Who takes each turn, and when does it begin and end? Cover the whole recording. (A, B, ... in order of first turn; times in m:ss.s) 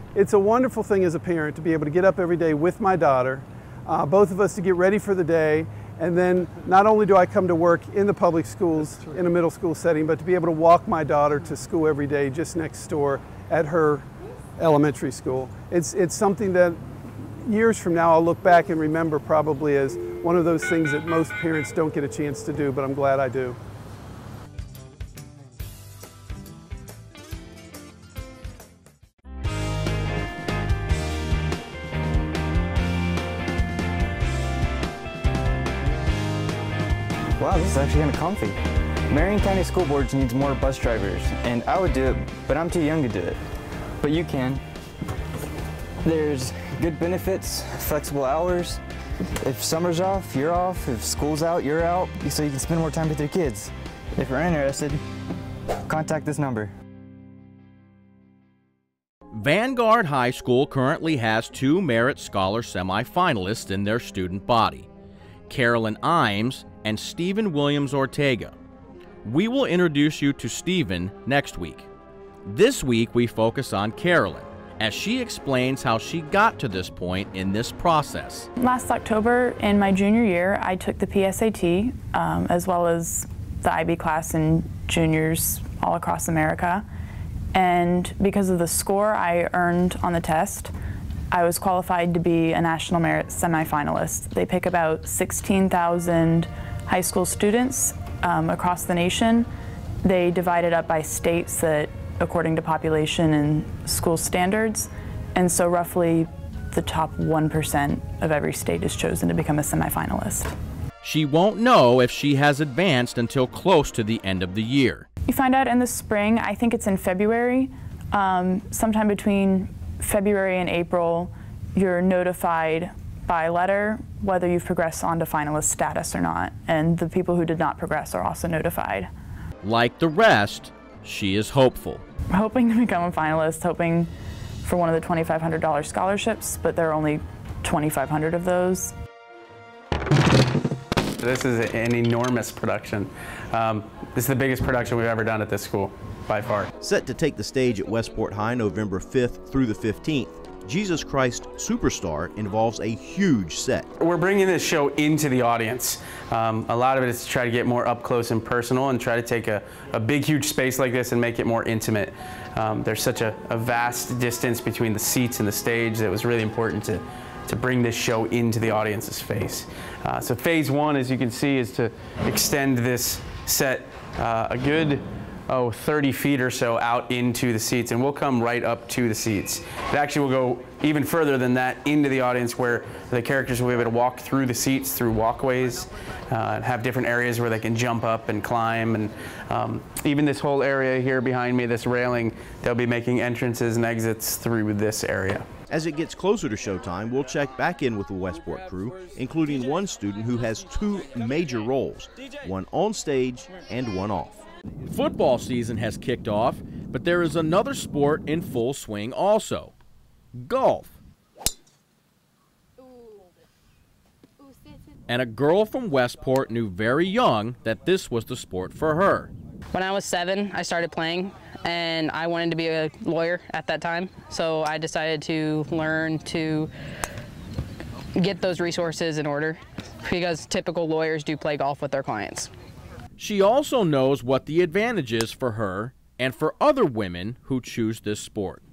0:00.2-0:14.0 A
0:14.6-0:16.8 A
0:17.4-0:23.6 A
0:37.4-0:38.6 B
0:39.1-0:43.4 B
0:44.0-0:44.6 B
0:46.0-0:48.8 B
0:49.4-0:55.0 B
0:55.9-0:56.7 B
0:59.3-1:04.9 C
1:05.5-1:08.6 C
1:09.2-1:11.9 C
1:12.5-1:18.5 C
1:18.6-1:26.8 D
1:27.5-1:30.7 D
1:31.3-1:39.5 D
1:40.0-1:50.5 D
1:51.0-1:55.1 C
1:55.3-2:09.1 D
2:09.6-2:12.0 C
2:12.3-2:14.1 D
2:14.6-2:18.9 D
2:21.2-2:26.7 E
2:26.8-2:33.9 F
2:34.0-3:15.5 E
3:15.7-3:24.4 F
3:24.9-3:29.7 C
3:30.4-3:30.9 C
3:35.1-3:39.3 C
3:39.7-3:46.7 G
3:48.2-3:52.5 G
3:53.2-3:58.6 C